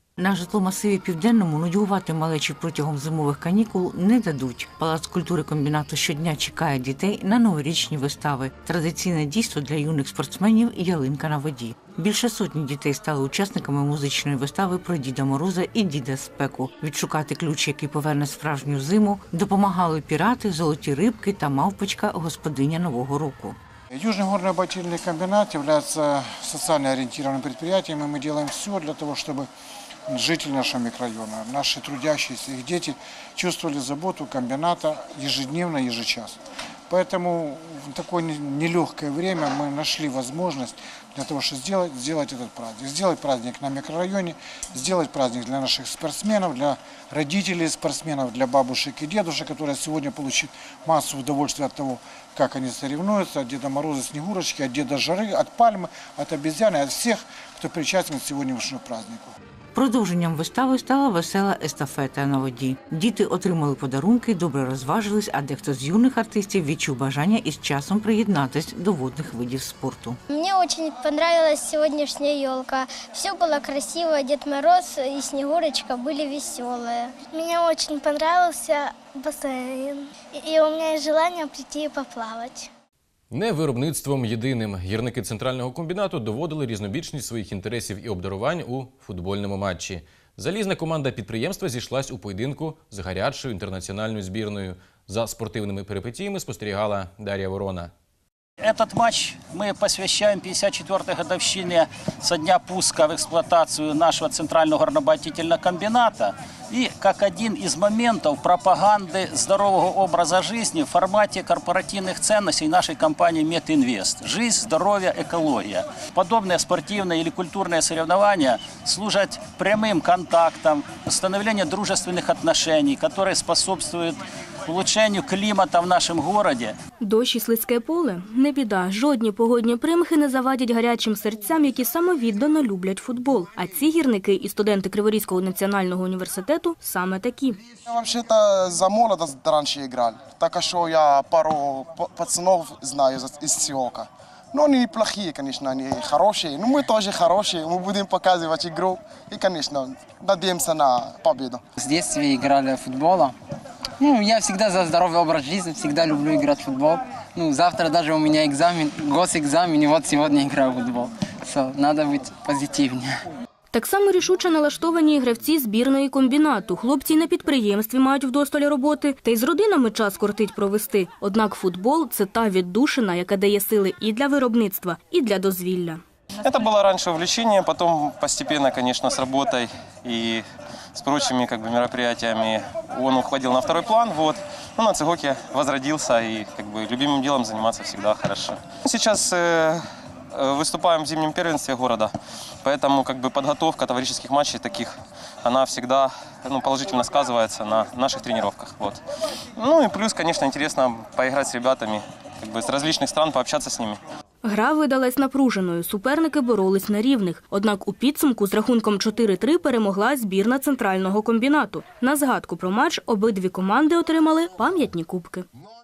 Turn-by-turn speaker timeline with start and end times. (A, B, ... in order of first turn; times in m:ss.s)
0:00.2-0:23.6 A
0:23.9-0:29.5 B
0:30.1-0:36.4 B
0:36.9-0:59.3 B
0:59.7-1:10.2 A
1:10.3-1:22.7 C
1:23.3-1:37.9 D
1:38.6-2:06.8 E
2:07.0-2:17.6 F
2:17.8-2:31.6 G
2:31.8-2:33.3 H
2:34.0-2:43.2 H
2:43.7-2:56.0 F
2:56.4-3:19.0 I
3:19.6-3:24.0 I
3:24.4-3:35.4 F